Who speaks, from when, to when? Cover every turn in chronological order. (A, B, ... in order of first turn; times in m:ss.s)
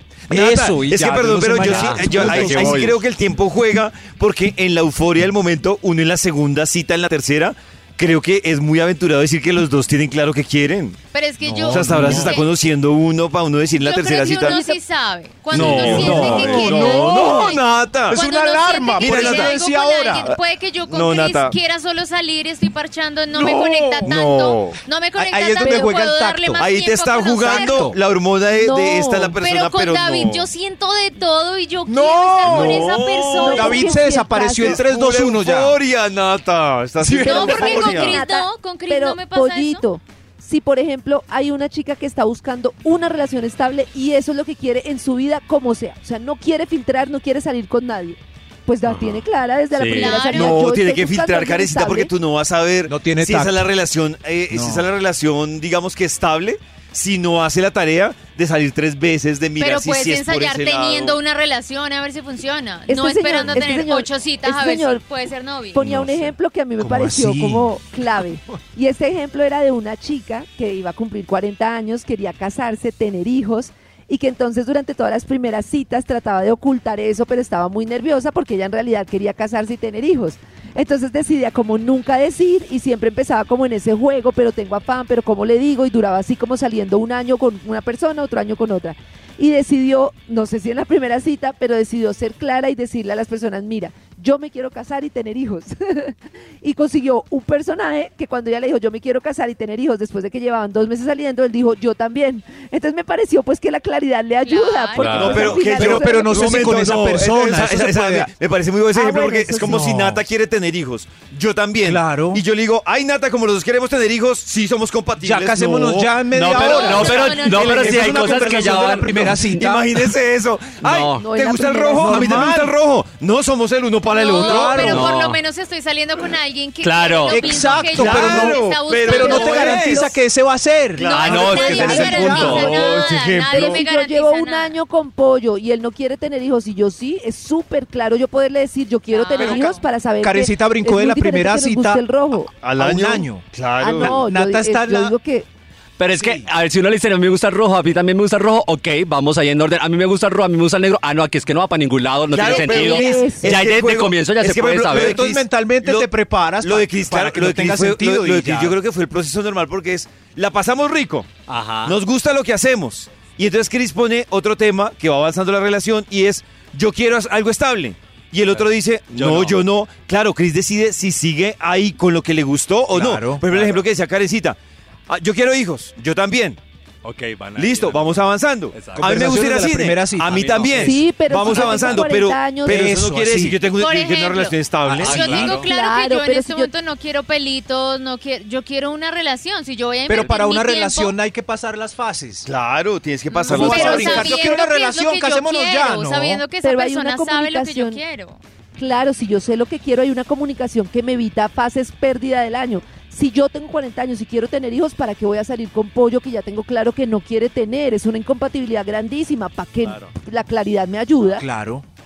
0:00.3-0:03.0 A
0:00.3-0:11.0 B
0:01.6-0:03.0 C
0:11.1-0:12.5 D
0:11.4-0:12.4 A
0:11.7-0:14.6 B
0:13.8-0:27.9 D
0:14.3-0:14.8 E
0:15.5-0:18.2 B
0:15.5-0:20.3 A
0:15.6-0:16.6 C
0:19.0-0:19.6 B
0:20.2-0:21.6 B
0:23.3-0:24.1 A
0:24.0-0:24.8 B
0:25.2-0:26.7 A
0:25.6-0:25.9 E
0:26.6-0:30.5 B
0:27.4-0:28.0 A
0:28.5-0:29.4 E
0:29.4-0:33.9 D
0:31.9-0:32.9 A
0:32.4-0:33.7 B
0:33.4-0:34.8 E
0:33.5-0:35.8 A
0:34.6-0:38.2 B
0:37.0-0:37.5 A
0:37.2-0:39.8 D
0:37.2-0:52.1 E
0:48.8-0:50.3 C
0:49.9-0:50.6 D
0:50.3-1:01.2 B
0:52.9-0:53.7 A
0:54.5-0:54.9 A
0:59.6-1:05.8 D
1:02.9-1:05.0 E
1:05.7-1:46.7 E
1:05.8-1:06.2 A
1:06.8-1:07.7 A
1:44.4-1:45.5 D
1:45.0-1:45.4 C
1:45.1-2:05.1 B
1:45.4-1:48.3 A
1:48.9-1:49.8 E
1:49.4-1:50.2 A
1:51.8-1:52.4 A
1:55.2-2:00.1 A
1:56.3-1:59.6 C
1:56.5-1:58.1 D
2:00.8-2:01.2 C
2:01.2-2:02.4 E
2:01.9-2:02.7 A
2:04.1-2:10.0 D
2:04.4-2:05.1 A
2:04.8-2:05.4 C
2:06.8-2:07.8 C
2:07.3-2:12.8 A
2:07.9-2:10.2 B
2:11.0-2:13.8 B
2:11.0-2:14.8 D
2:11.2-2:13.0 C
2:13.5-2:22.5 E
2:19.1-2:19.8 D
2:19.4-2:19.8 B
2:20.2-2:22.0 A
2:22.6-2:24.2 B
2:22.8-2:23.4 A
2:23.8-2:25.5 E
2:24.0-2:25.2 A
2:26.0-2:35.2 C
2:26.1-2:26.5 A
2:32.3-2:56.6 B
2:32.4-2:33.6 E
2:34.9-2:38.8 A
2:41.5-2:42.0 C
2:48.5-2:49.6 C
2:52.9-2:53.4 A
2:53.5-2:53.8 C
2:57.0-2:59.6 C
2:57.6-3:05.5 B
2:59.0-3:01.5 A
3:00.3-3:00.9 C
3:00.8-3:02.9 E
3:02.6-3:03.6 A
3:03.7-3:11.2 D
3:04.8-3:05.5 A
3:05.0-3:05.7 C
3:05.6-3:06.7 E
3:10.1-3:12.5 A
3:12.5-3:14.6 B
3:13.3-3:18.4 D
3:13.5-3:16.4 A
3:16.6-3:18.0 E
3:18.8-3:31.4 E
3:29.8-3:30.1 C
3:31.4-3:31.9 A